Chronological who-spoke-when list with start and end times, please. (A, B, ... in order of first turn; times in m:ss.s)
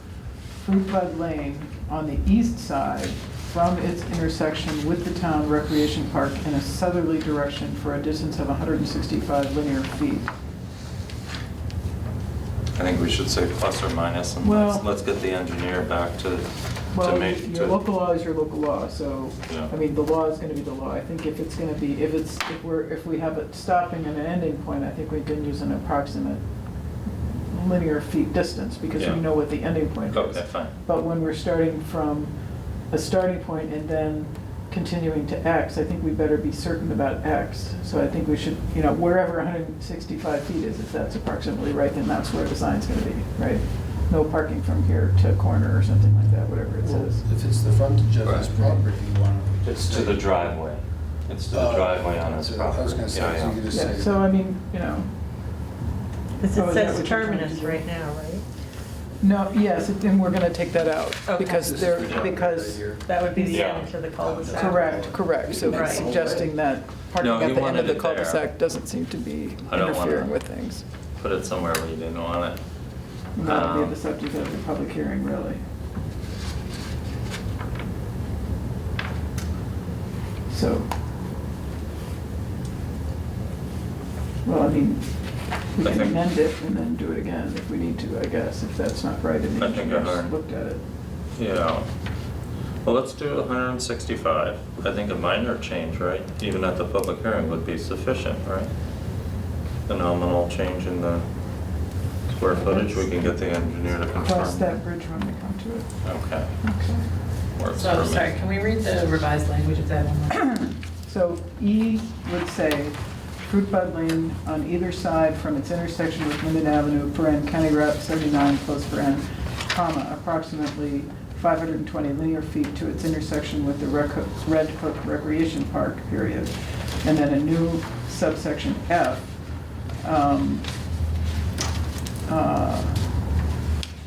0:00.5-0:10.3 A
0:12.7-0:17.8 B
0:14.4-0:14.8 A
0:16.9-0:26.4 A
0:27.3-0:32.3 A
0:29.0-0:29.2 B
0:30.1-0:30.7 B
0:32.9-0:47.2 A
0:46.8-0:50.3 C
0:48.2-0:48.7 B
0:49.6-0:53.6 B
0:51.5-0:54.3 C
0:53.7-0:55.1 A
0:56.4-0:58.4 D
0:56.5-0:57.8 A
0:59.2-1:03.6 A
1:01.3-1:02.0 D
1:01.6-1:03.1 C
1:01.9-1:02.3 B
1:03.0-1:06.1 D
1:03.5-1:03.9 B
1:04.2-1:06.5 C
1:04.5-1:10.8 A
1:07.2-1:08.5 B
1:09.6-1:10.3 B
1:11.2-1:12.6 B
1:13.4-1:15.6 A
1:13.4-1:14.0 B
1:20.5-1:20.9 A
1:24.4-1:30.8 A
1:25.8-1:26.2 B
1:29.6-1:30.3 B
1:31.4-1:31.9 B
1:32.8-1:38.7 B
1:39.9-1:41.2 B
1:42.3-1:44.8 B
1:44.2-1:46.0 A
1:46.0-1:46.6 B
1:46.6-1:47.0 A
1:47.5-1:48.4 B
1:47.7-1:50.5 E
1:50.4-2:09.3 A
2:10.0-2:10.7 A
2:12.3-2:13.0 A